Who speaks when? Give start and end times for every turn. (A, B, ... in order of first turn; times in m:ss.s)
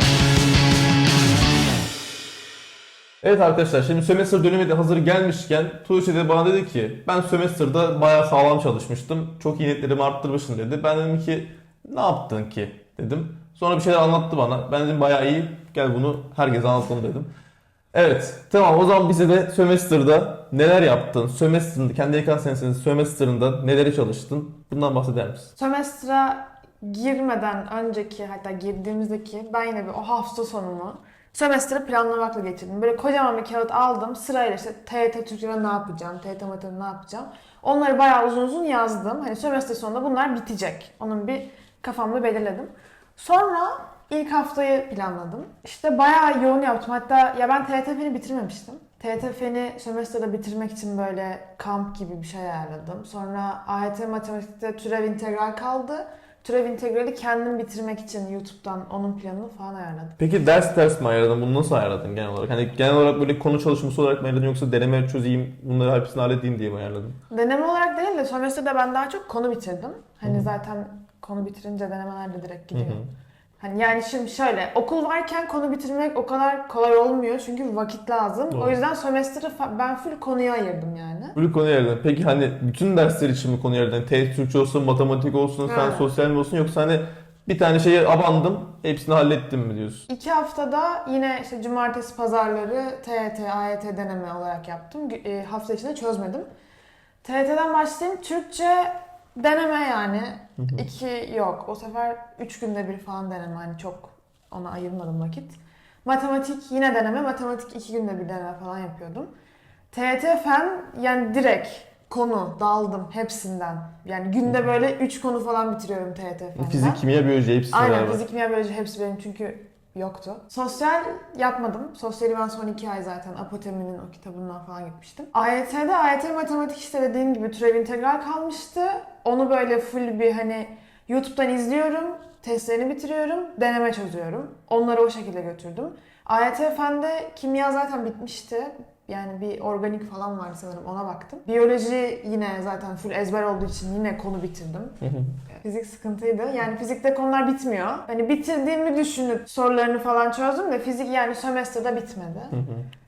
0:03.2-0:17.3 A
0:17.9-0:25.5 A
0:25.6-1:00.2 B
1:00.2-1:07.2 A
1:07.3-1:13.0 B
1:12.7-1:13.1 A
1:13.6-1:21.4 B
1:18.5-1:18.8 A
1:21.3-1:30.1 A
1:25.6-1:26.1 B
1:30.1-1:36.4 B
1:37.2-1:49.3 B
1:40.6-1:40.8 A
1:49.9-1:57.0 B
1:56.6-1:58.2 A
1:57.7-2:25.0 B
2:25.0-2:25.4 A
2:25.5-2:32.6 B
2:32.5-2:32.9 A